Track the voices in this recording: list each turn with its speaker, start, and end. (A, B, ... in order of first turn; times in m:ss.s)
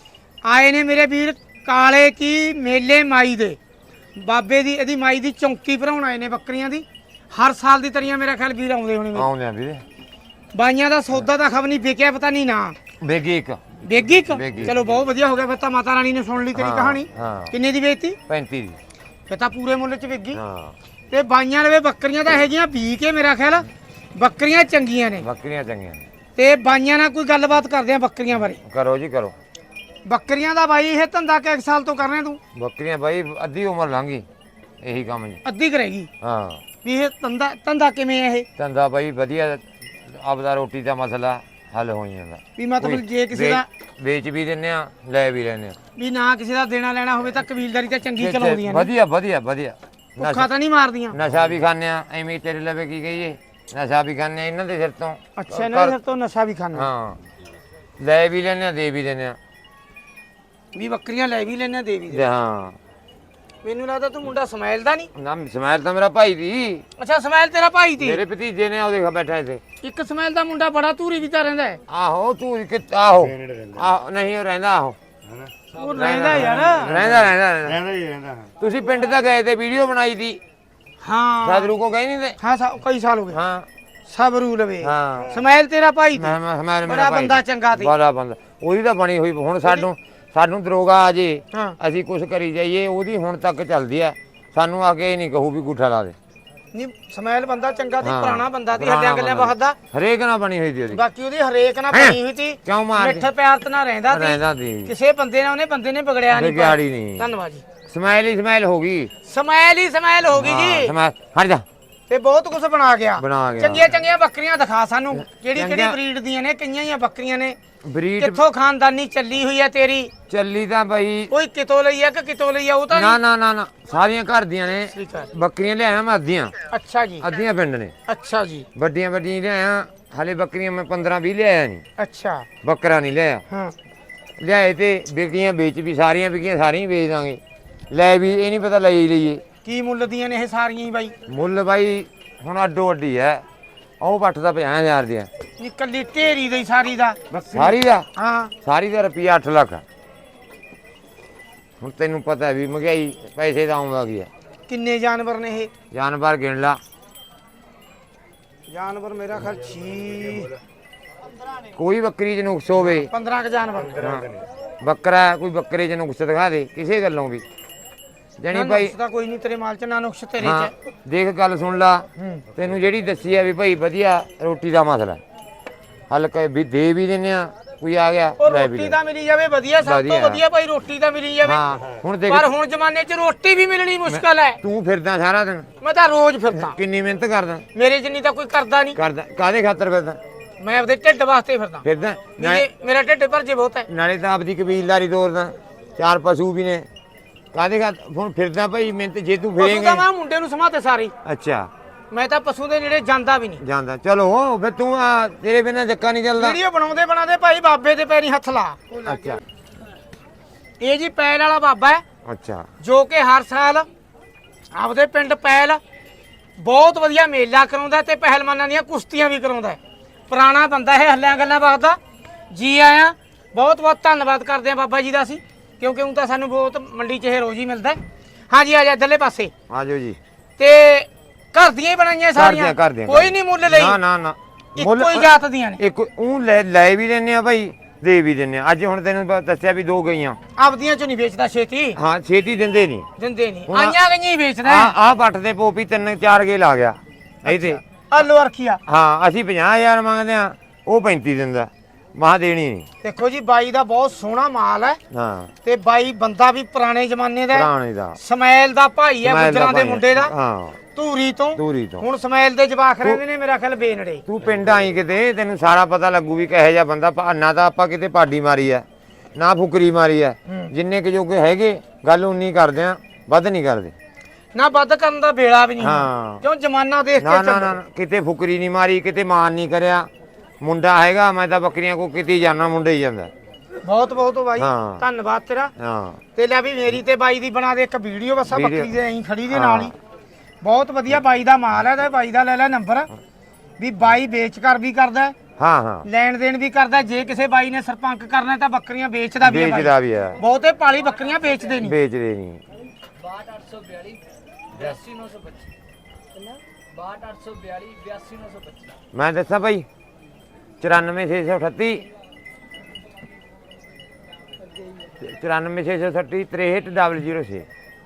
0:00.4-0:03.6 A
0:04.2-0:09.3 A
0:09.2-0:09.8 B
0:10.5-0:12.8 A
0:13.0-0:14.8 B
0:13.8-0:18.2 A
0:16.5-0:17.5 B
0:18.3-0:18.8 B
0:19.3-0:20.4 A
0:20.3-0:20.8 B
0:21.1-0:25.3 A
0:25.2-0:26.0 B
0:26.4-0:28.6 A
0:28.6-0:29.4 B
0:30.1-0:32.4 A
0:32.6-0:34.2 B
0:34.8-0:35.4 B
0:35.4-0:36.1 A
0:36.2-0:36.6 B
0:36.8-0:38.5 A
0:38.6-0:45.8 B
0:42.6-0:43.6 A
0:46.0-0:48.9 A
0:48.2-0:50.5 B
0:50.2-0:51.2 A
0:51.1-0:56.0 B
0:55.4-0:56.9 A
0:56.7-0:57.2 B
0:58.0-0:59.4 B
1:00.8-1:02.2 A
1:02.1-1:02.8 B
1:03.6-1:05.1 A
1:05.2-1:06.8 B
1:07.0-1:08.2 A
1:08.0-1:09.6 B
1:09.8-1:11.8 A
1:11.9-1:15.0 B
1:15.7-1:17.0 A
1:15.9-1:17.9 B
1:18.6-1:20.4 B
1:21.0-1:21.7 A
1:21.4-1:22.4 B
1:22.4-1:23.4 A
1:23.3-1:23.7 B
1:24.1-1:27.9 A
1:24.8-1:25.4 B
1:26.2-1:36.2 B
1:36.7-1:39.8 A
1:38.0-1:41.0 B
1:40.9-1:47.6 A
1:41.9-1:43.3 B
1:44.1-1:44.9 B
1:46.3-1:47.3 B
1:47.9-1:49.1 B
1:49.2-1:51.0 A
1:50.3-1:51.6 B
1:52.1-1:57.6 A
1:53.2-1:53.9 B
1:55.6-1:56.0 B
1:57.8-1:58.4 B
1:58.2-2:00.1 A
2:00.3-2:01.3 B
2:01.3-2:03.2 A
2:02.9-2:06.5 B
2:04.9-2:05.3 A
2:06.7-2:07.3 A
2:07.2-2:07.9 B
2:08.1-2:08.7 A
2:08.8-2:11.8 B
2:12.0-2:12.5 A
2:12.6-2:13.4 B
2:13.5-2:13.7 A
2:14.4-2:19.4 B
2:19.6-2:21.2 A
2:21.3-2:23.4 B
2:24.0-2:25.3 B
2:25.6-2:28.5 A
2:27.4-2:28.1 B
2:28.6-2:29.8 B
2:31.8-2:34.3 B
2:34.7-2:35.7 A
2:35.9-2:36.8 B
2:38.7-2:40.5 A
2:41.8-2:43.1 B
2:42.9-2:44.2 A
2:44.0-2:47.4 B
2:48.4-2:48.9 B
2:48.5-2:50.7 A
2:50.4-2:55.2 B
2:52.2-2:52.4 A
2:56.1-2:59.0 B
2:58.4-3:01.6 A
2:59.8-3:00.4 B
3:01.4-3:02.5 B
3:02.3-3:04.6 A
3:04.1-3:05.7 B
3:05.8-3:06.8 A
3:06.5-3:07.7 B
3:07.7-3:09.0 A
3:09.0-3:10.2 B
3:10.6-3:11.8 A
3:11.8-3:12.7 B
3:12.4-3:13.9 A
3:13.9-3:16.9 B
3:17.5-3:20.0 B
3:19.6-3:21.1 A
3:21.2-3:21.7 B
3:22.1-3:23.6 A
3:23.6-3:26.6 B
3:26.4-3:29.4 A
3:29.1-3:29.4 B
3:30.8-3:32.0 A
3:32.2-3:32.7 B
3:32.8-3:33.9 A
3:34.7-3:35.8 A
3:36.6-3:39.8 A
3:40.3-3:42.0 A
3:42.5-3:48.0 A
3:48.5-3:49.5 A
3:49.7-3:50.2 B
3:50.6-3:54.0 A
3:52.4-3:55.3 B
3:54.8-3:55.8 A
3:55.8-4:00.4 B
4:00.6-4:02.0 A
4:02.0-4:03.1 B
4:03.2-4:04.9 A
4:03.7-4:04.0 B
4:04.6-4:07.8 B
4:07.5-4:08.8 A
4:08.9-4:12.9 B
4:13.0-4:15.0 A
4:15.1-4:15.5 B
4:15.6-4:20.3 A
4:17.5-4:18.2 B
4:19.2-4:20.8 B
4:21.0-4:24.2 A
4:21.6-4:22.0 B
4:24.3-4:28.8 B
4:29.4-4:33.9 B
4:30.5-4:30.7 A
4:34.6-4:37.8 A
4:35.8-4:36.4 B
4:37.2-4:40.1 B
4:40.6-4:43.3 B
4:43.8-4:45.7 A
4:44.6-4:45.0 B
4:45.8-4:46.2 B
4:46.4-4:50.0 A
4:48.5-4:48.9 B
4:49.5-4:49.9 B
4:50.6-4:53.1 A
4:53.8-4:55.4 A
4:55.6-4:56.1 B
4:56.0-5:02.0 A
4:59.4-5:00.4 B
5:01.8-5:02.6 B
5:03.2-5:05.7 C
5:06.9-5:08.9 C
5:09.1-5:09.9 B
5:10.8-5:12.1 B
5:15.2-5:17.7 B